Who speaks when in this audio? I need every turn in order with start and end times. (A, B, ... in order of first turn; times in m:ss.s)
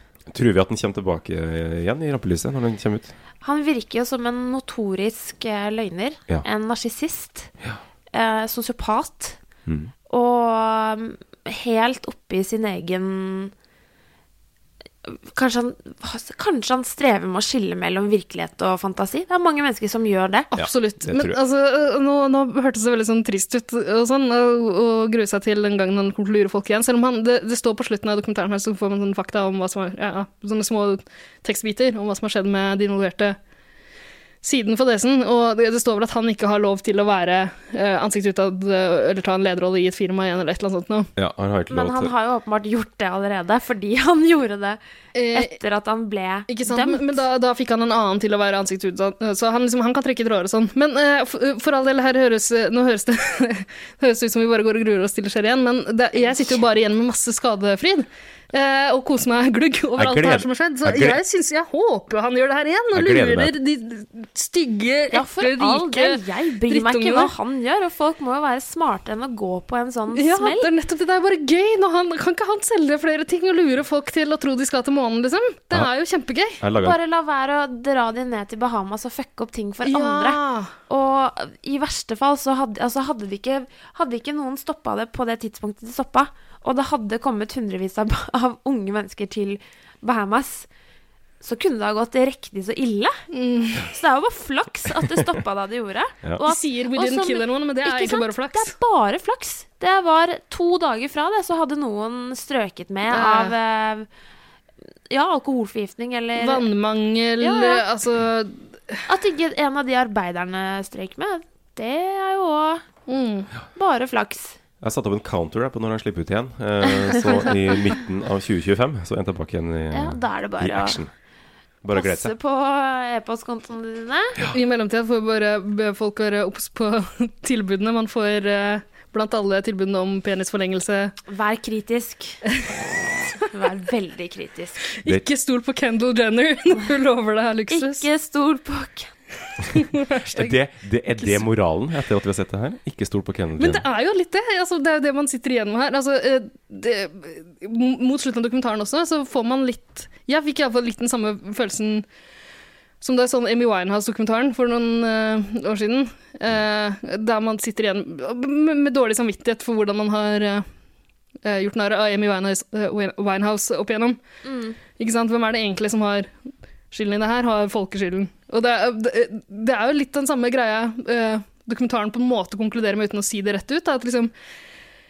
0:00.3-0:03.1 A
0:03.4-0:07.5 B
0:08.1-0:09.4 B
0:10.1-0:13.5 B
0:15.1-0:20.5 B
0:20.5-0:33.4 C
0:20.6-0:21.4 A
0:34.4-0:41.1 C
0:41.2-0:42.1 A
0:41.7-0:44.8 B
0:45.1-0:45.6 C
0:45.3-0:47.2 B
0:46.5-1:07.3 C
0:56.2-0:56.6 B
1:00.0-1:01.2 A
1:02.9-1:03.5 A
1:05.1-1:10.7 B
1:10.1-1:16.6 C
1:16.6-1:17.0 A
1:16.8-1:30.7 B
1:19.9-1:20.7 C
1:31.4-1:33.2 B
1:33.3-1:33.8 C
1:33.8-1:44.1 B
1:36.4-1:38.7 C
1:43.1-1:43.5 C
1:45.1-1:46.6 B
1:46.4-1:49.0 C
1:47.4-1:47.8 B
1:49.1-1:52.8 B
1:53.1-1:53.5 C
1:53.8-1:54.6 B
1:54.8-2:01.1 A
1:59.9-2:01.0 B
2:01.8-2:02.3 A
2:01.9-2:04.4 B
2:04.5-2:11.1 C
2:11.3-2:12.4 B
2:13.5-2:15.0 B
2:15.0-2:18.0 C
2:17.7-2:19.1 B
2:19.8-2:20.5 C
2:20.3-2:23.8 A
2:23.6-2:32.1 C
2:33.0-2:40.7 C
2:41.4-2:44.2 C
2:44.4-2:44.8 B
2:45.0-2:46.3 C
2:46.9-2:54.3 C